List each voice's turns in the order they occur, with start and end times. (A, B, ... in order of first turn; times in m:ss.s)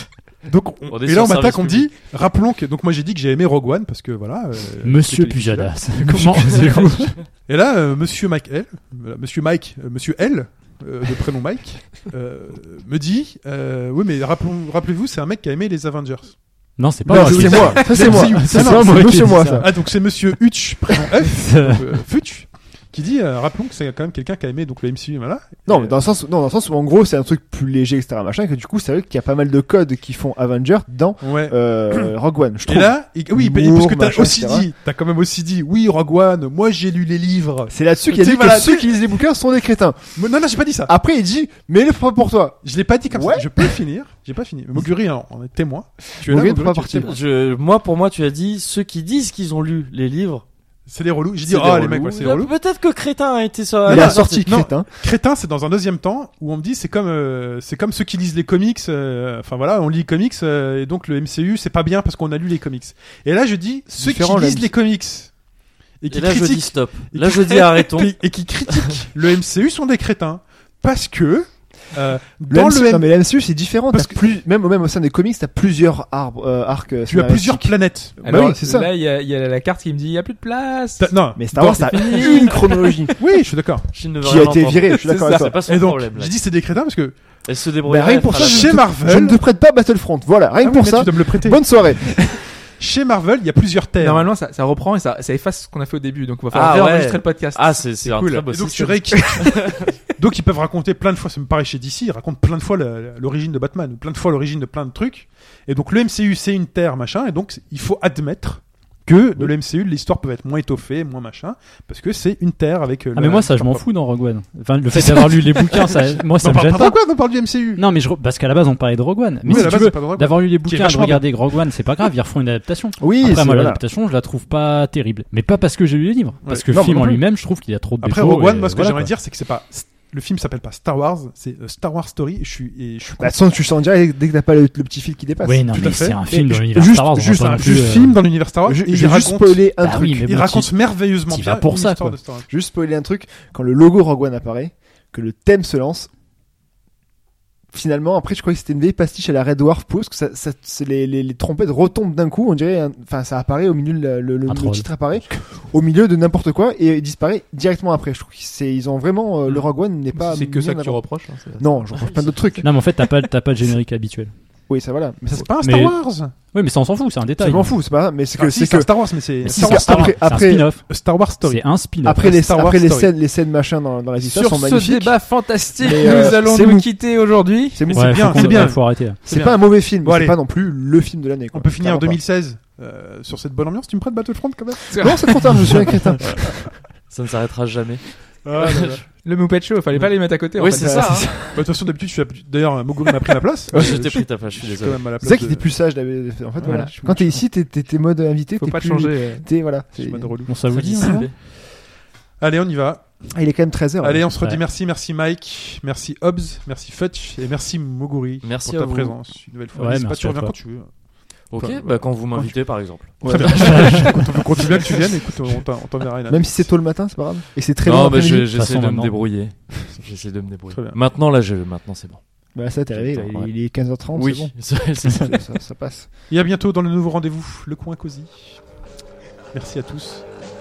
0:00.4-0:26.0 A
0:00.9-0:01.9 B
0:04.8-0:07.3 C
0:16.8-0:20.4 C
0:17.0-0:19.7 D
0:21.0-0:22.0 C
0:25.6-0:34.7 D
0:31.2-0:32.1 A
0:32.6-0:39.0 A
0:37.7-0:40.2 D
0:40.2-0:40.9 A
0:40.8-0:43.8 D
0:42.6-0:47.2 A
0:46.2-0:47.2 D
0:47.0-0:50.4 B
0:50.9-0:52.5 A
0:51.4-0:54.5 B
0:53.8-0:55.0 D
0:53.8-1:05.4 A
1:03.9-1:04.7 D
1:06.0-1:13.1 A
1:06.1-1:08.2 B
1:12.5-1:18.9 D
1:13.9-1:14.2 A
1:17.1-1:18.2 A
1:18.2-1:23.2 E
1:21.0-1:21.9 A
1:21.4-1:23.2 D
1:23.2-1:23.9 A
1:23.9-1:26.4 B
1:24.2-1:25.6 D
1:24.9-1:25.5 E
1:25.6-1:27.4 A
1:27.4-1:28.8 B
1:27.8-1:32.5 D
1:28.2-1:29.4 A
1:30.6-1:34.3 A
1:34.0-1:39.4 E
1:36.5-1:39.9 B
1:38.5-1:54.1 A
1:53.1-2:09.1 C
1:54.9-1:57.8 A
1:59.4-2:01.7 A
2:03.0-2:03.8 D
2:06.4-2:06.9 A
2:06.7-2:07.2 D
2:08.0-2:13.4 A
2:13.2-2:16.1 D
2:15.4-2:18.4 C
2:15.7-2:22.5 A
2:18.6-2:20.3 D
2:19.8-2:22.2 C
2:22.5-2:26.1 D
2:27.7-2:42.7 D
2:34.4-2:35.2 C
2:39.4-2:42.6 E
2:42.6-2:44.3 C
2:44.7-2:45.5 D
2:45.3-2:46.4 A
2:45.6-2:47.8 C
2:47.4-2:50.8 D
2:48.3-2:53.1 A
2:49.4-2:52.3 C
2:52.0-2:57.0 D
2:54.2-2:57.9 E
2:57.7-3:02.2 D
2:57.9-3:00.4 A
2:57.9-2:59.2 C
3:01.5-3:05.9 A
3:04.9-3:05.6 E
3:04.9-3:06.7 D
3:07.1-3:09.0 B
3:08.4-3:09.1 A
3:09.2-3:11.3 E
3:10.5-3:11.6 B
3:10.7-3:11.6 D
3:11.5-3:15.9 A
3:13.7-3:14.2 D
3:13.7-3:15.1 B
3:15.2-3:20.4 D
3:16.6-3:17.4 A
3:16.6-3:16.9 E
3:18.6-3:19.5 E
3:20.0-3:20.5 A
3:20.5-3:21.4 C
3:20.7-3:21.3 B
3:21.5-3:21.8 A
3:22.4-3:23.4 A
3:23.3-3:24.2 D
3:24.0-3:31.0 A
3:24.3-3:24.6 C
3:28.4-3:29.2 B
3:29.7-3:30.6 C
3:31.5-3:35.6 B
3:31.5-3:36.7 A
3:33.2-3:34.0 D
3:33.6-3:34.1 C
3:36.3-3:38.5 D
3:37.8-3:45.4 B
3:38.5-3:39.4 C
3:40.7-3:41.0 A
3:42.5-3:46.1 D
3:46.3-3:48.7 A
3:49.5-3:50.3 A